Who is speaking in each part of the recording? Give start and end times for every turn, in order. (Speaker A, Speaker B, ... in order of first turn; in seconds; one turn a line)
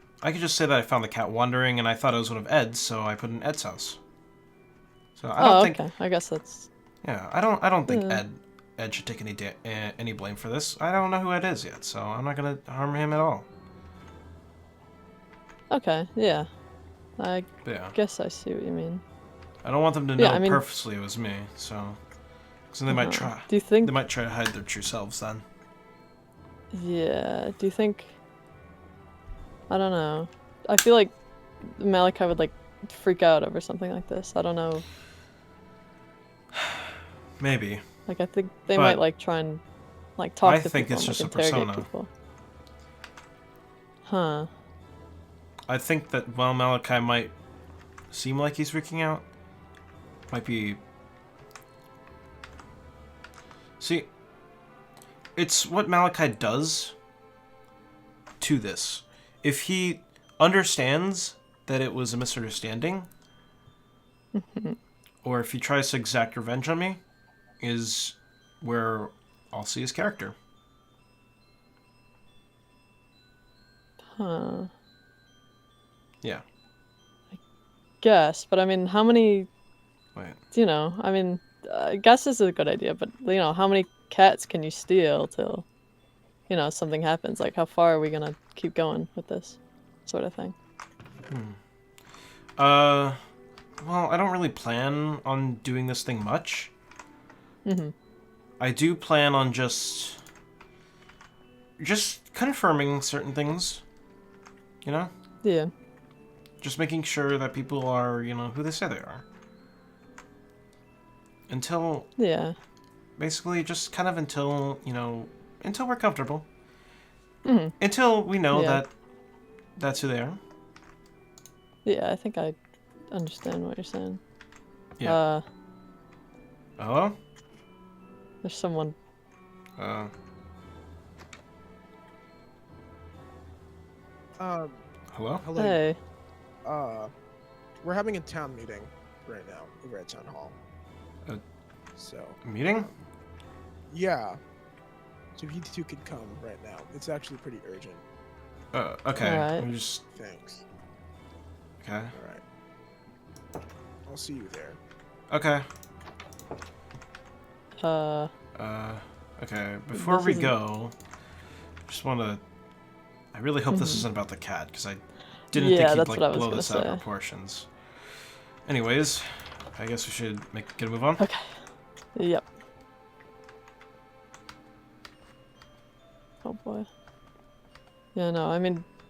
Speaker A: 0.2-4.0
Speaker A: 5.2-5.8
Speaker B: 5.4-6.7
Speaker A: 7.0-13.4
Speaker B: 7.9-8.2
Speaker B: 15.7-16.5
Speaker B: 17.2-19.0
Speaker A: 17.6-17.9
Speaker A: 19.6-22.0
Speaker B: 20.2-20.6
Speaker A: 22.7-25.4
Speaker B: 22.9-23.9
Speaker B: 26.7-28.1
Speaker B: 29.7-31.1
Speaker B: 31.8-34.8
Speaker A: 36.5-36.9
Speaker A: 37.4-37.8
Speaker B: 38.1-39.6
Speaker A: 38.7-39.0
Speaker B: 40.2-42.1
Speaker A: 40.4-41.9
Speaker B: 44.0-44.5
Speaker A: 45.7-47.3
Speaker A: 48.1-49.2
Speaker A: 50.3-50.8
Speaker A: 53.8-54.1
Speaker A: 55.4-56.9
Speaker A: 58.4-63.1
Speaker B: 64.3-64.8
Speaker A: 65.2-67.0
Speaker A: 67.6-70.3
Speaker B: 74.1-74.7
Speaker B: 78.0-79.5
Speaker B: 80.5-85.6
Speaker B: 86.5-90.5
Speaker A: 91.3-91.6
Speaker A: 92.6-93.2
Speaker A: 93.8-96.7
Speaker B: 97.6-97.9
Speaker A: 98.6-100.2
Speaker A: 101.8-103.8
Speaker A: 104.8-105.1
Speaker B: 105.4-105.7
Speaker A: 106.6-109.2
Speaker A: 111.5-112.1
Speaker B: 112.2-112.5
Speaker A: 113.2-116.5
Speaker B: 117.4-117.8
Speaker A: 117.8-118.9
Speaker B: 118.5-118.8
Speaker A: 119.8-120.4
Speaker B: 121.8-122.6
Speaker B: 123.1-124.2
Speaker B: 125.0-125.4
Speaker A: 126.8-127.2
Speaker B: 128.4-128.9
Speaker A: 129.8-130.1
Speaker C: 134.4-134.8
Speaker A: 135.1-135.4
Speaker C: 135.4-135.8
Speaker B: 135.6-136.0
Speaker C: 136.6-137.1
Speaker C: 137.8-140.6
Speaker C: 141.9-142.9
Speaker A: 142.4-142.9
Speaker C: 143.9-144.4
Speaker C: 145.3-148.0
Speaker A: 148.7-150.0
Speaker B: 149.2-149.7
Speaker C: 150.1-150.6
Speaker A: 151.8-152.1
Speaker C: 152.1-152.4
Speaker C: 154.1-154.8
Speaker A: 155.3-155.7
Speaker B: 157.8-158.3
Speaker A: 158.6-160.9
Speaker B: 159.9-160.5
Speaker A: 161.9-162.4
Speaker A: 163.3-167.7
Speaker B: 163.7-164.1
Speaker B: 165.5-167.0
Speaker A: 168.7-171.2
Speaker B: 171.2-171.4
Speaker B: 172.2-172.4
Speaker B: 176.4-176.9
Speaker B: 178.1-178.8